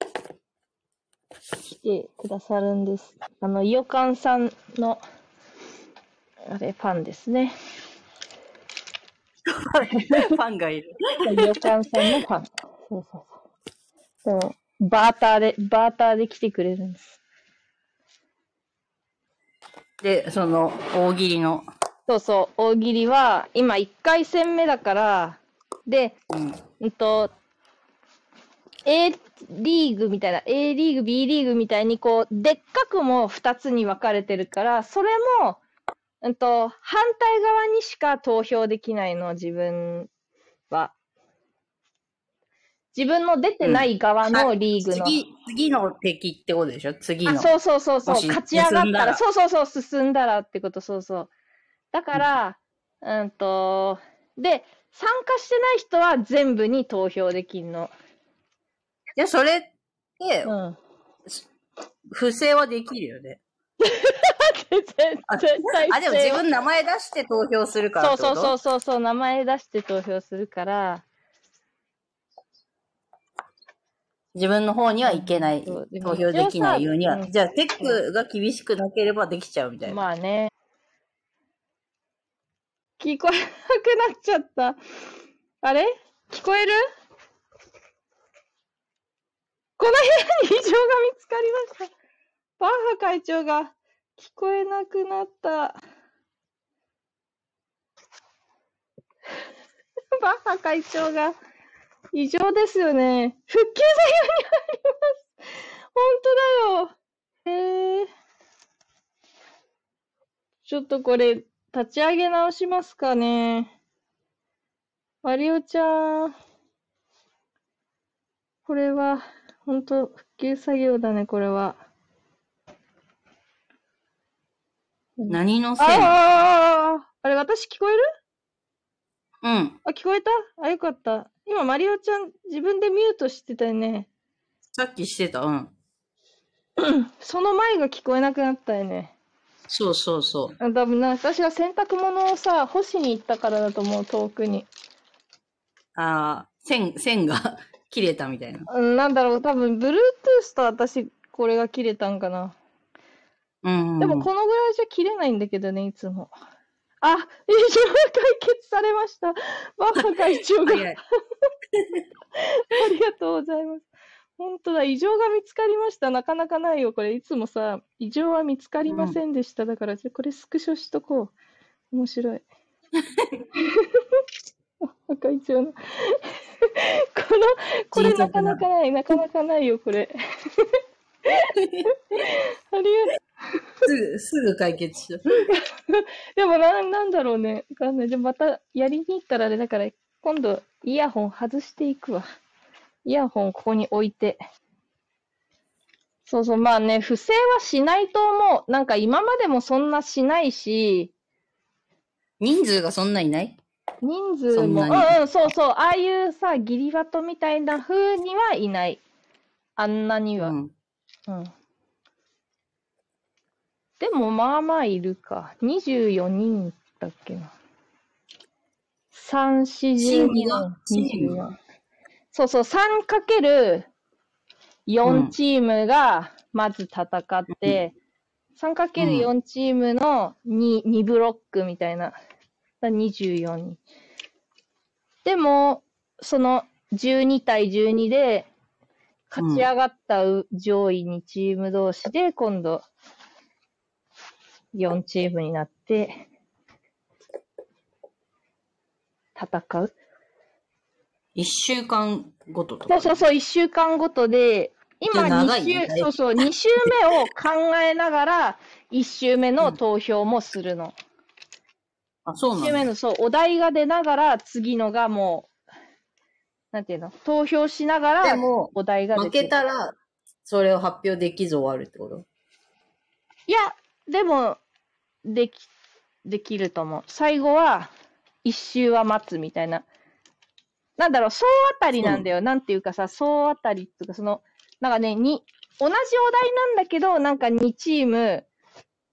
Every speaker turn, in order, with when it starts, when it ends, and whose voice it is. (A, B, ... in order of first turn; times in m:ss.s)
0:01.8-0:05.0 A
0:06.5-0:07.5 A
0:09.5-0:12.1 B
0:10.0-0:10.3 A
0:11.2-0:13.3 A
0:14.2-0:17.2 A
0:20.0-0:21.6 B
0:22.1-0:26.2 A
0:26.3-0:26.6 B
0:26.8-0:27.3 A
0:28.8-0:35.6 A
0:36.2-0:40.1 A
0:40.7-0:40.9 A
0:42.9-0:45.2 A
0:43.6-0:47.5 B
0:47.2-0:51.3 A
0:48.0-0:49.2 B
0:51.9-0:57.9 A
0:59.2-1:00.5 B
1:00.4-1:00.8 A
1:02.1-1:03.4 B
1:03.8-1:06.4 A
1:05.3-1:08.6 B
1:08.0-1:11.0 A
1:14.3-1:20.0 B
1:15.0-1:18.0 A
1:19.8-1:20.5 A
1:23.0-1:24.8 A
1:25.6-1:26.8 A
1:29.8-1:31.9 A
1:32.6-1:35.8 A
1:40.1-1:41.4 A
1:42.1-1:45.1 A
1:45.9-1:46.9 A
1:47.4-1:48.1 A
1:50.6-1:53.7 A
1:55.2-1:56.3 A
1:58.6-2:01.8 A
2:05.2-2:08.0 A
2:05.3-2:06.1 B
2:09.4-2:09.8 B
2:09.8-2:14.1 A
2:14.7-2:15.7 B
2:16.8-2:19.1 A
2:19.7-2:20.6 B
2:20.6-2:24.7 A
2:25.9-2:28.7 B
2:28.7-2:32.6 A
2:33.6-2:34.3 B
2:34.0-2:36.3 A
2:37.0-2:41.0 A
2:40.6-2:41.0 B
2:41.7-2:42.0 B
2:42.4-2:43.9 A
2:44.4-2:51.3 A
2:48.9-2:49.2 B
2:51.9-2:52.4 A
2:53.6-2:54.0 A
2:55.1-3:01.5 A
2:57.9-2:58.6 B
3:01.6-3:01.9 B
3:02.1-3:03.1 A
3:03.8-3:05.4 B
3:05.5-3:12.2 A
3:13.0-3:14.4 A
3:16.2-3:21.1 A
3:22.4-3:23.6 B
3:24.0-3:29.0 A
3:24.5-3:25.5 B
3:29.8-3:30.5 A
3:30.4-3:30.7 B
3:34.0-3:37.5 A
3:39.1-3:41.6 A
3:40.0-3:41.4 B
3:42.3-3:43.9 A
3:44.9-3:47.9 A
3:45.0-3:45.3 B
3:47.5-3:47.8 B
3:48.6-3:52.2 A
3:49.0-3:49.3 B
3:52.8-3:53.8 A
3:55.2-3:58.5 A
3:59.3-4:02.8 A
3:59.4-3:59.7 B
4:04.7-4:06.2 A
4:09.4-4:09.9 A
4:11.3-4:13.2 B
4:12.9-4:21.0 A
4:15.1-4:16.1 B
4:22.2-4:22.9 B
4:22.6-4:25.5 A
4:26.7-4:29.5 A
4:28.2-4:32.2 B
4:33.5-4:34.6 A
4:35.2-4:35.7 A
4:36.2-4:37.9 A
4:38.4-4:39.8 A
4:41.0-4:48.5 A